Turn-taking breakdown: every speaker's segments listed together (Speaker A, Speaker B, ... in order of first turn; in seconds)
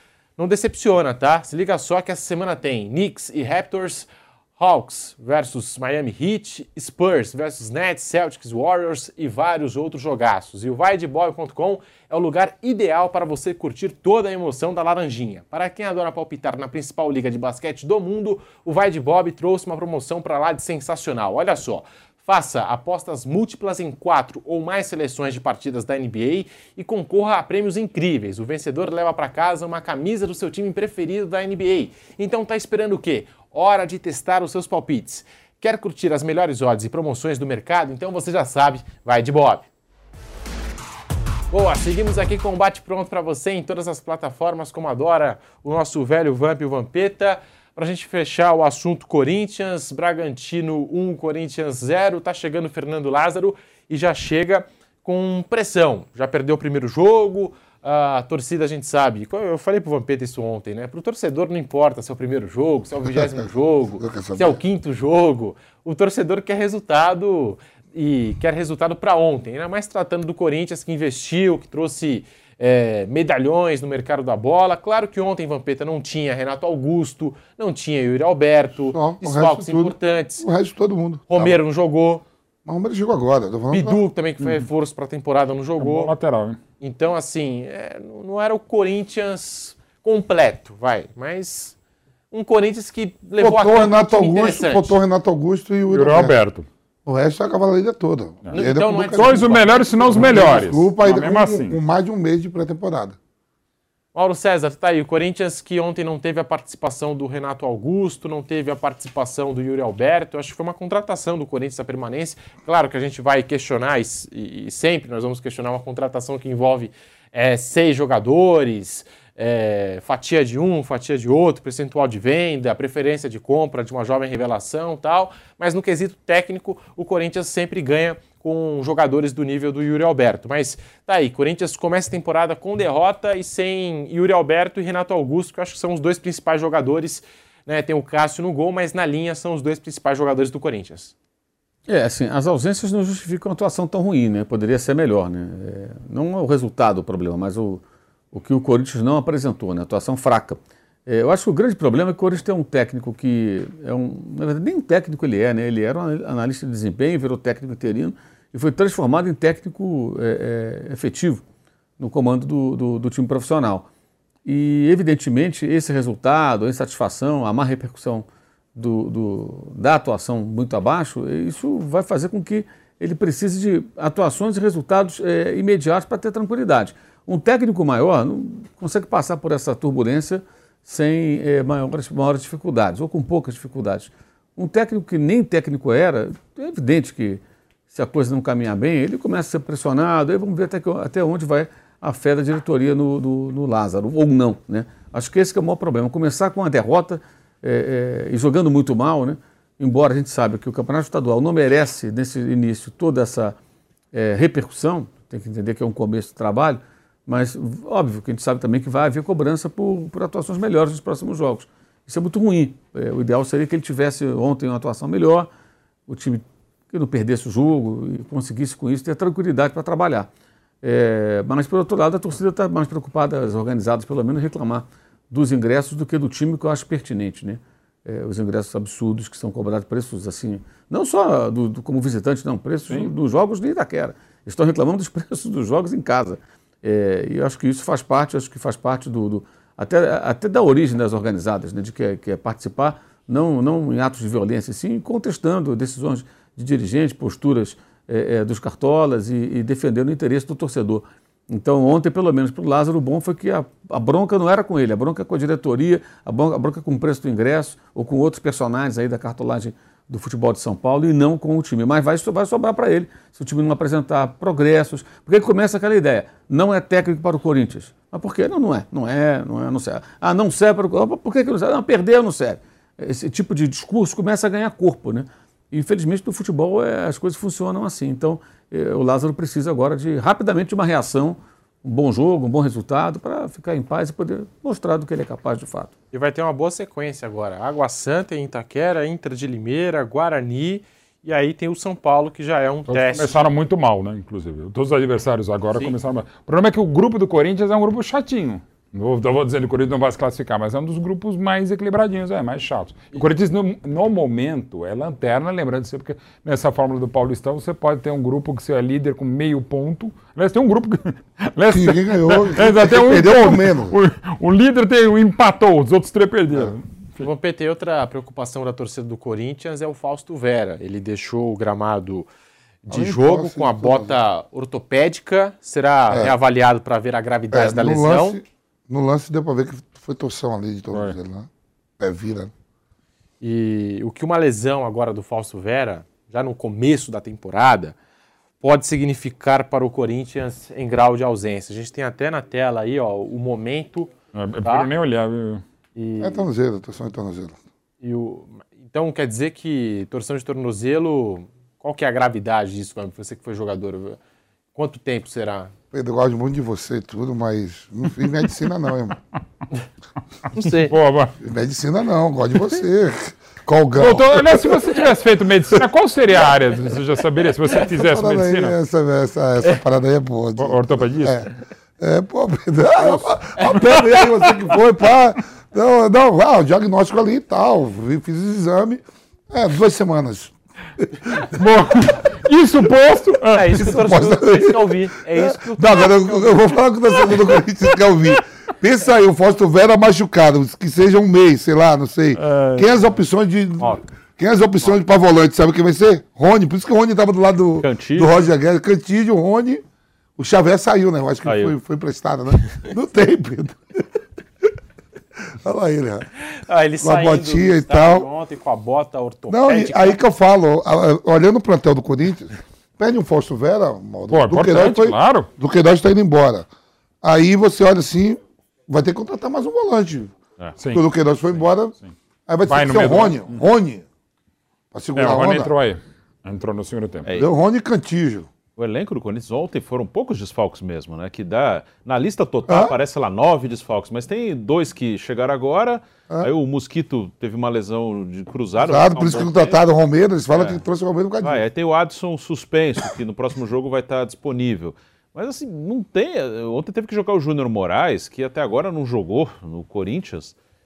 Speaker A: 0.4-39.7, 41.5-80.5, 81.3-82.2, 83.7-86.1, 86.8-91.8, 92.3-95.0, 98.5-100.6, 104.2-141.1, 286.1-293.4, 317.2-322.3, 322.8-328.4, 333.4-338.0, 338.6-344.1, 344.6-344.9, 345.9-346.5, 348.0-354.2, 354.8-355.7, 360.6-360.9, 383.5-386.8, 406.6-410.2
Speaker B: 63.1-63.5, 64.0-64.6, 78.9-81.6, 82.7-84.0, 93.4-96.4, 97.0-103.2, 311.7-314.0, 322.9-324.2, 327.5-332.5, 346.2-347.6, 355.9-359.2, 361.4-365.0, 367.7-381.1, 383.8-399.8, 400.4-403.8, 405.5-406.3, 407.0-408.3, 409.5-416.7, 417.2-420.4, 420.9-422.0, 422.5-424.1, 424.9-425.8, 427.4-428.5, 432.7-432.9, 438.8-441.6
Speaker C: 85.8-86.6, 95.9-96.7, 98.5-101.8, 292.9-317.2, 344.4-345.6, 360.9-361.3, 364.0-368.8, 370.6-371.4, 373.7-374.5, 381.5-384.0, 392.4-392.9, 414.3-415.5, 420.8-421.1, 422.7-423.5, 425.2-427.3
Speaker D: 141.9-161.4, 162.0-163.9, 164.4-203.6, 204.1-215.5, 216.1-220.3, 220.8-285.9
Speaker E: 397.8-398.3, 401.4-401.8, 428.8-439.8, 440.6-440.8, 441.4-450.6